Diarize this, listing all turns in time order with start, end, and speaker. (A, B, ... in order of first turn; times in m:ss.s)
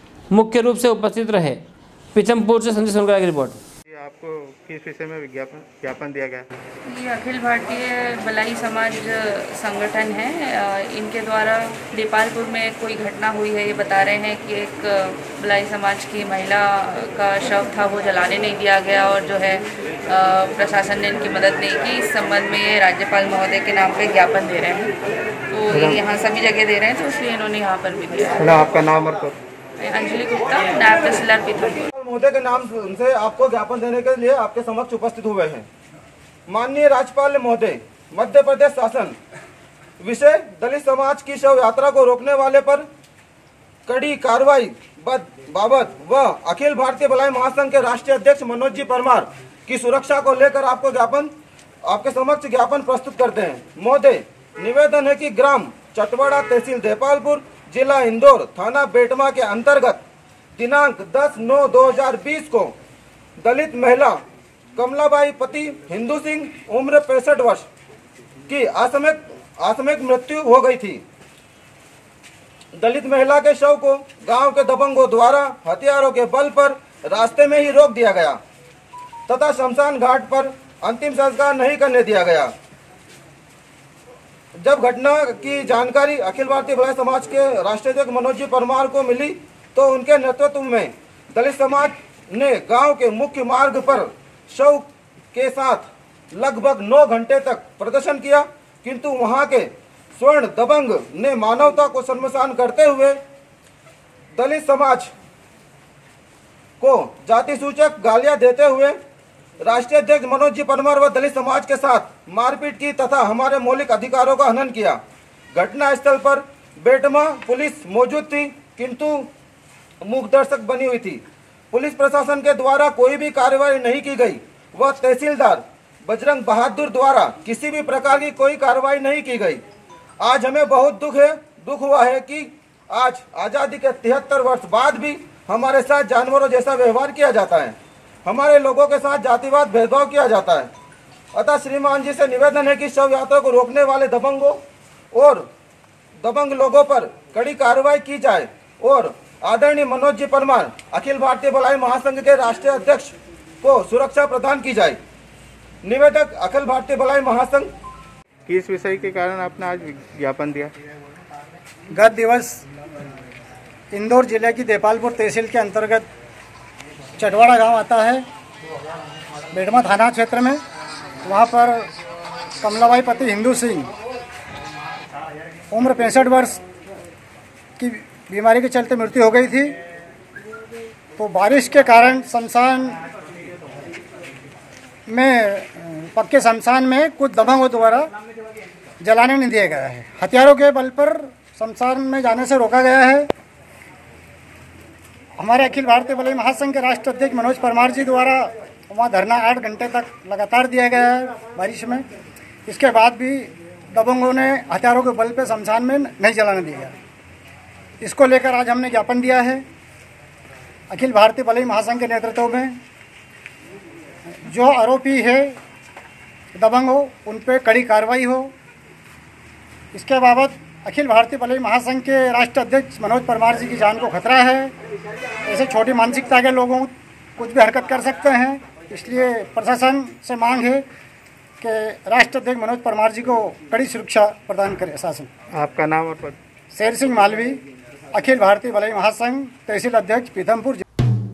0:00.3-0:01.6 A
0:02.1-0:03.6 A
0:03.9-0:06.5 B
0:06.9-0:24.9 C
0:25.5-0:28.3 C
0:25.7-0:26.0 B
0:28.4-0:29.4 B
0:29.8-0:31.9 C
0:31.9-0:35.7 D
0:36.5-0:39.2 D
0:40.0-0:42.8 D
0:43.8-0:51.3 D
0:51.8-1:00.0 D
1:00.6-1:02.7 D
1:03.4-1:04.2 D
1:04.8-1:07.7 D
1:08.5-1:11.0 D
1:12.7-1:18.4 D
1:19.3-1:22.5 D
1:24.6-1:43.2 D
1:44.3-1:45.1 D
1:46.8-1:49.0 D
1:49.6-1:55.0 D
1:55.5-1:59.3 D
2:00.0-2:09.6 D
2:10.2-2:20.7 D
2:21.3-2:25.5 D
2:26.2-2:35.0 D
2:35.8-2:37.7 D
2:38.5-2:40.7 B
2:41.9-2:42.6 E
2:43.9-2:46.1 E
2:47.2-2:48.2 E
2:49.5-2:50.6 E
2:51.2-2:51.8 E
2:52.6-2:53.9 E
2:55.7-2:56.6 E
2:57.8-2:59.8 E
3:01.2-3:03.0 E
3:05.1-3:08.1 E
3:09.0-3:13.3 E
3:15.4-3:22.0 E
3:22.7-3:26.9 E
3:28.0-3:29.6 E
3:30.9-3:32.8 E
3:34.4-3:35.6 E
3:36.5-3:38.5 E
3:39.9-3:44.7 E
3:45.4-3:50.8 E
3:51.6-3:55.3 E
3:55.5-3:56.4 B
3:56.7-3:57.6 E
3:58.1-4:00.8 E